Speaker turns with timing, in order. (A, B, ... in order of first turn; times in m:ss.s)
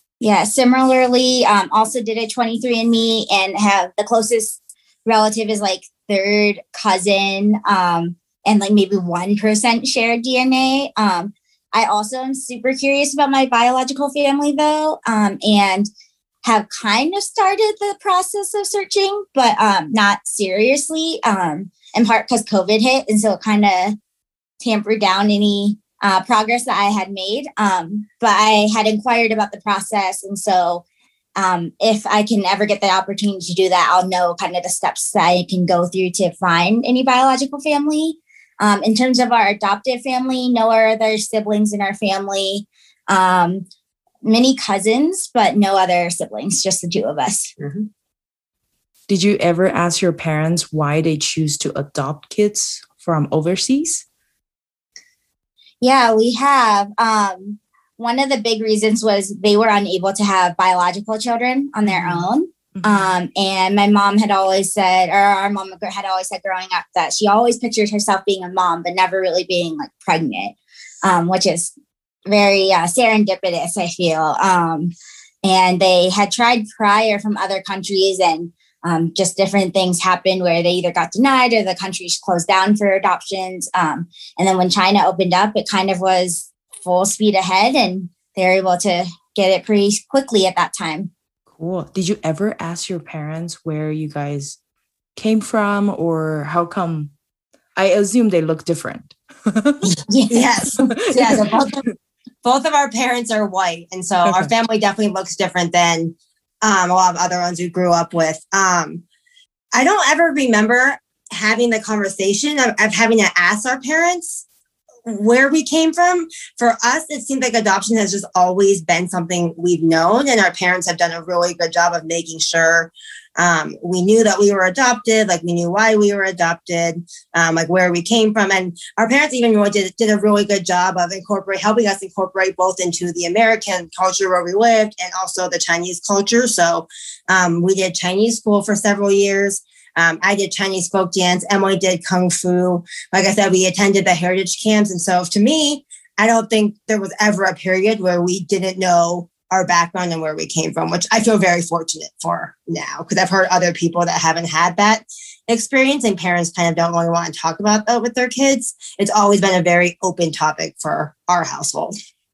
0:00.2-0:15.9 A
0:16.4-0:24.0 A
0:24.6-0:30.8 A
0:31.4-0:43.7 A
0:44.2-0:47.5 A
0:47.6-0:47.9 B
0:49.1-0:54.0 C
0:55.8-1:11.7 A
1:01.9-1:03.1 C
1:12.3-1:31.1 A
1:31.6-1:34.6 C
1:35.2-1:37.1 C
1:37.8-1:39.9 C
1:39.8-1:41.4 A
1:40.3-1:41.8 B
1:40.9-1:41.4 C
1:42.4-1:49.0 B
1:49.7-1:54.4 B
1:55.0-2:41.9 B